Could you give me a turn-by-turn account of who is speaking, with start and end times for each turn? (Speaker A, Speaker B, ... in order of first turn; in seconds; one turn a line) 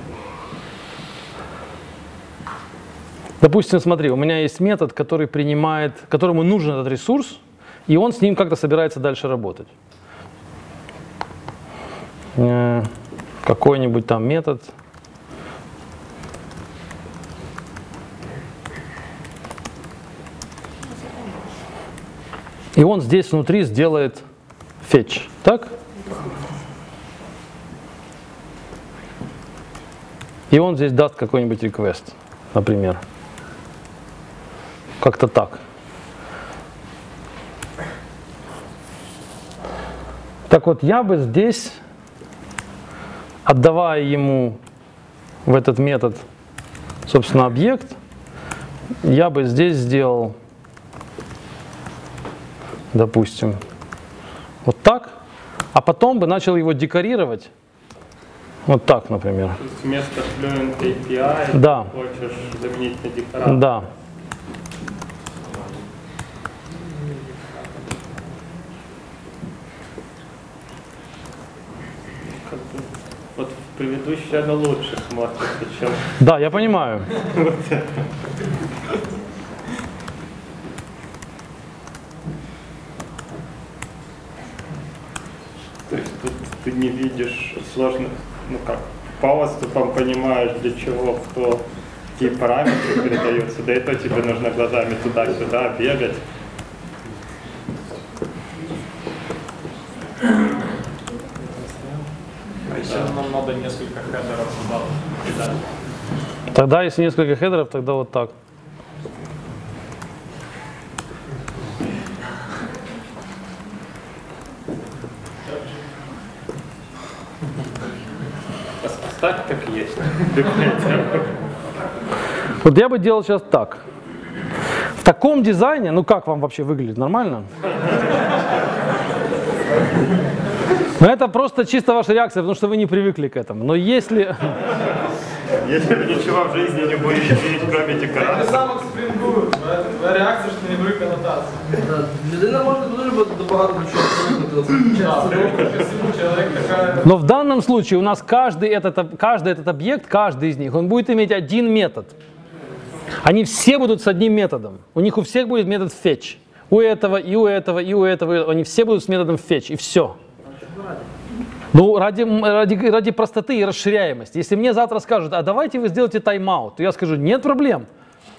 Speaker A: 3.4-9.7
Speaker A: 12.3-12.9
Speaker A: 13.4-14.7
Speaker A: 22.8-24.2
Speaker A: 24.8-25.7
Speaker A: 30.5-33.0
Speaker A: 35.0-35.6
Speaker A: 40.5-41.8
Speaker A: 43.5-44.6
Speaker A: 45.5-46.2
Speaker A: 47.1-48.0
Speaker A: 49.0-50.3
Speaker A: 52.9-53.6
Speaker A: 54.6-55.1
Speaker A: 55.7-57.5
Speaker A: 58.7-59.6
Speaker B: 59.6-63.6
Speaker A: 61.5-61.9
Speaker A: 63.5-63.8
Speaker B: 72.4-76.1
Speaker A: 76.2-77.0
Speaker B: 77.3-77.8
Speaker B: 85.9-91.6
Speaker B: 92.2-96.2
Speaker C: 102.7-105.5
Speaker A: 106.5-108.3
Speaker B: 118.8-121.2
Speaker A: 122.6-123.8
Speaker A: 125.0-127.5
Speaker A: 131.0-134.5
Speaker B: 135.6-138.7
Speaker D: 138.2-140.1
Speaker C: 138.2-138.6
Speaker C: 139.7-141.4
Speaker D: 141.7-145.9
Speaker C: 145.0-147.0
Speaker A: 147.0-152.1
Speaker A: 153.2-160.2
Speaker A: 161.7-167.9